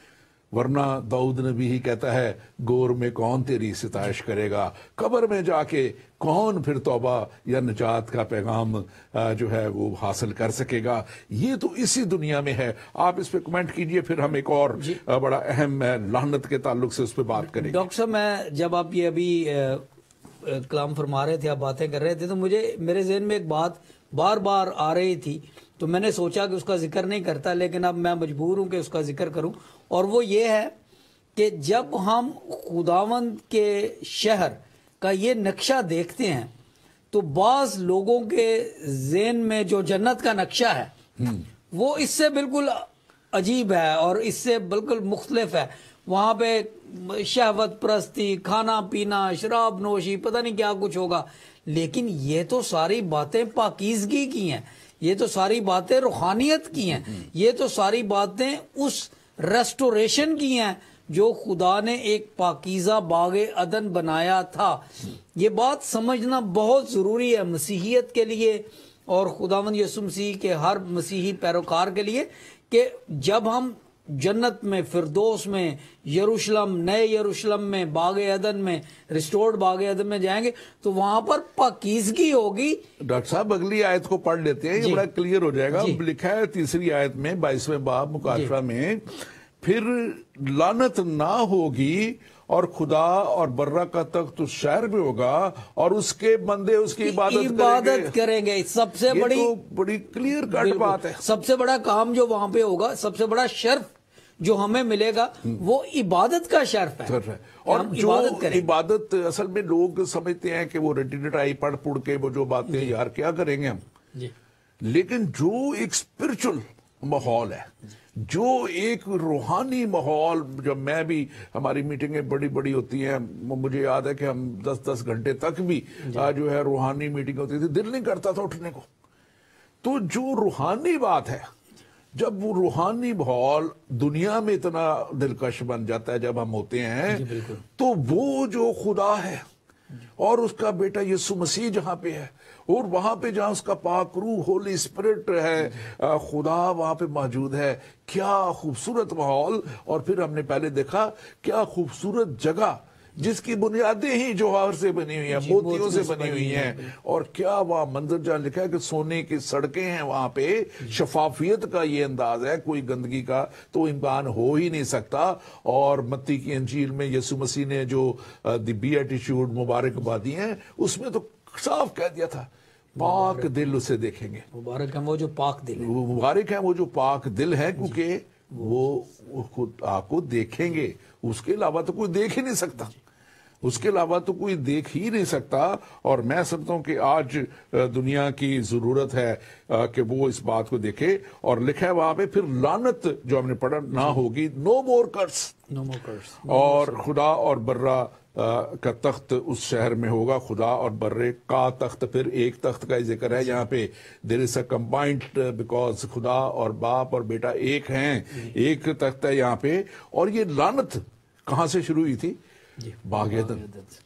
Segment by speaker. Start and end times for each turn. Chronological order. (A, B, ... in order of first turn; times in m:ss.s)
0:00.5-0:17.8 A
0:17.5-0:19.8 B
0:20.4-0:30.7 B
0:31.3-0:36.5 B
0:37.1-0:40.9 B
0:41.7-1:22.8 B
1:23.0-1:38.1 A
1:24.8-1:25.0 B
1:25.7-1:26.0 B
1:37.0-1:39.5 B
1:39.1-1:41.2 A
1:40.5-1:48.7 B
1:47.0-1:53.8 A
1:52.7-1:52.9 B
1:54.8-2:08.9 A
2:09.8-2:11.5 A
2:12.1-2:19.4 A
2:17.1-2:17.6 B
2:20.2-2:54.5 A
2:35.3-2:36.9 B
2:53.0-2:53.5 B
2:54.5-2:55.9 B
2:55.8-3:02.9 A
3:03.6-3:15.6 A
3:15.7-3:17.0 B
3:16.4-3:32.4 A
3:32.8-3:33.9 B
3:33.0-3:33.6 A